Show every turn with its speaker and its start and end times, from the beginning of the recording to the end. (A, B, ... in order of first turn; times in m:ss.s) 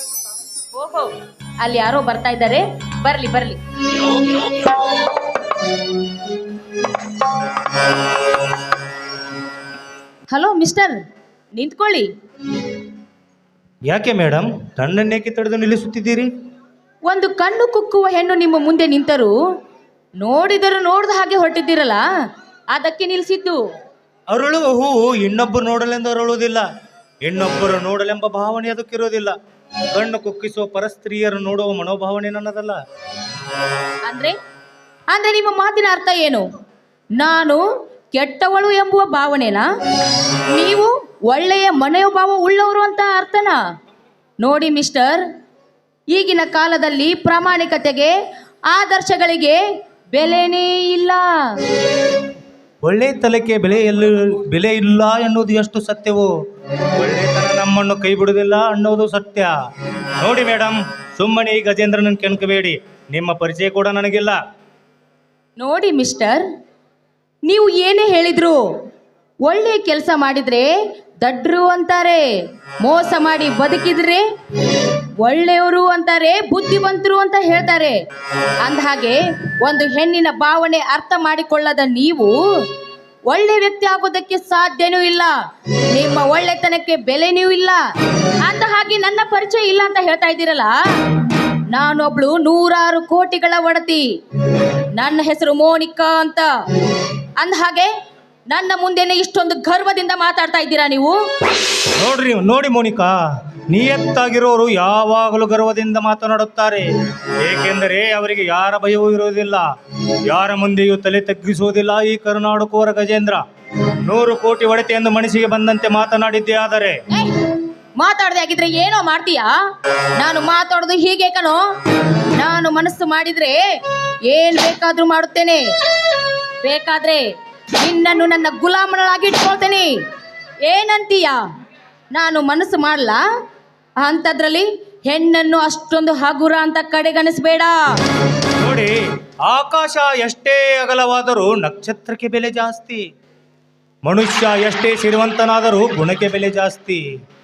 0:00.7-0:04.5 A
0:10.3-0:11.0 A
0:11.5-0:12.1 A
0:13.9-0:16.3 B
0:17.1-0:19.3 A
0:20.2-0:22.0 A
0:22.7-0:23.6 A
0:24.3-0:26.6 B
0:27.2-0:29.4 B
0:29.9-0:32.8 B
0:34.0-0:34.4 A
0:35.1-0:36.5 A
0:37.2-0:39.7 A
0:40.5-0:43.6 A
0:44.4-0:45.2 A
0:46.1-0:48.1 A
0:48.7-0:49.6 A
0:50.1-0:51.5 A
0:52.8-0:56.3 B
0:57.0-0:59.5 B
1:00.2-1:04.4 B
1:05.6-1:06.5 A
1:07.5-1:08.6 A
1:09.4-1:10.7 A
1:11.2-1:12.2 A
1:12.8-1:14.2 A
1:15.2-1:18.0 A
1:18.6-1:22.3 A
1:23.3-1:25.3 A
1:25.9-1:27.8 A
1:28.4-1:30.7 A
1:31.7-1:34.0 A
1:34.9-1:36.5 A
1:37.4-1:37.9 A
1:38.5-1:41.2 A
1:42.0-1:43.2 B
1:43.7-1:46.8 B
1:47.4-1:53.4 B
1:54.0-1:57.0 B
1:57.1-1:57.4 A
1:58.0-1:59.5 A
2:00.2-2:01.6 A
2:02.4-2:03.6 A
2:04.3-2:05.6 A
2:06.6-2:07.2 A
2:07.8-2:09.9 A
2:10.7-2:11.4 A
2:12.1-2:13.2 A
2:14.0-2:17.9 A
2:18.6-2:18.9 B
2:19.5-2:23.0 B
2:24.0-2:27.0 B